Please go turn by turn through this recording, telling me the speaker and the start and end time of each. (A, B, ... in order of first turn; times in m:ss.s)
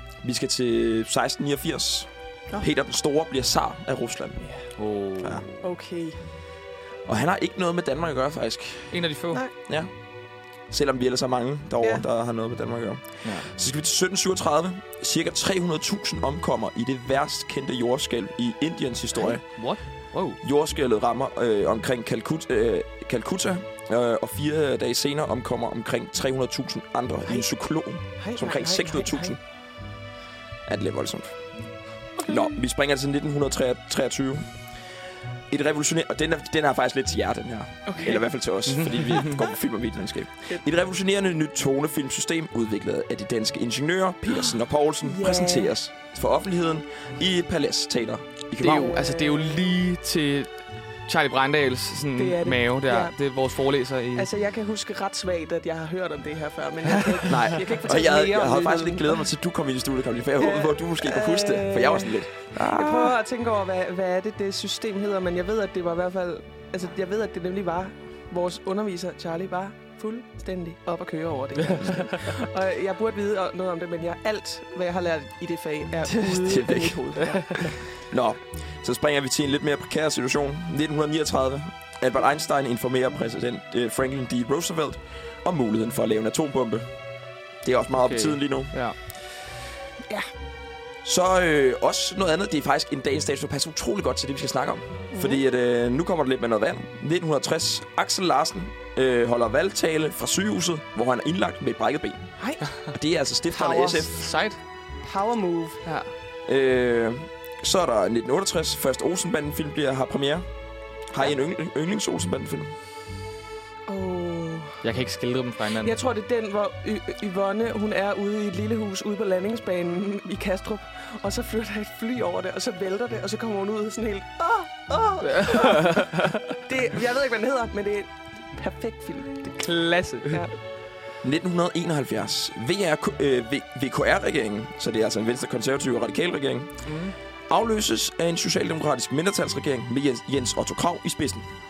0:00.2-0:04.4 A
0:04.8-0:05.6 B
0:05.2-0:05.4 A
0:05.6-0:06.2 C
0:07.0-0:09.0 A
0:08.9-0:09.4 B
0:09.6-0:09.9 A
0:10.7-0:19.6 A
0:19.5-0:20.4 B
0:20.4-0:29.4 A
0:28.2-0:29.3 C
0:30.6-0:31.4 A
0:32.2-0:32.5 C
0:32.2-0:34.6 A
0:35.5-0:49.0 A
0:37.8-0:38.2 C
0:38.7-0:39.4 B
0:44.3-0:45.7 C
0:48.6-0:50.5 B
0:48.6-0:49.7 C
0:51.0-0:54.3 B
0:52.2-0:53.2 C
0:54.1-0:59.2 C
0:57.3-1:03.2 A
1:00.4-1:17.9 C
1:16.3-1:17.0 A
1:17.9-1:26.9 A
1:27.6-1:28.7 A
1:28.0-1:29.0 B
1:31.0-1:44.2 A
1:35.1-1:35.4 C
1:42.4-1:42.8 C
1:43.5-1:44.1 C
1:44.1-1:44.6 B
1:45.0-1:45.8 C
1:45.8-1:46.1 B
1:46.4-1:50.4 A
1:51.0-1:52.7 A
1:53.9-1:54.8 C
1:54.8-1:55.9 B
1:55.8-2:09.6 C
2:05.2-2:06.4 B
2:09.4-2:10.4 B
2:10.3-2:10.5 C
2:11.2-2:16.9 A
2:16.8-2:17.1 B
2:17.5-2:21.5 A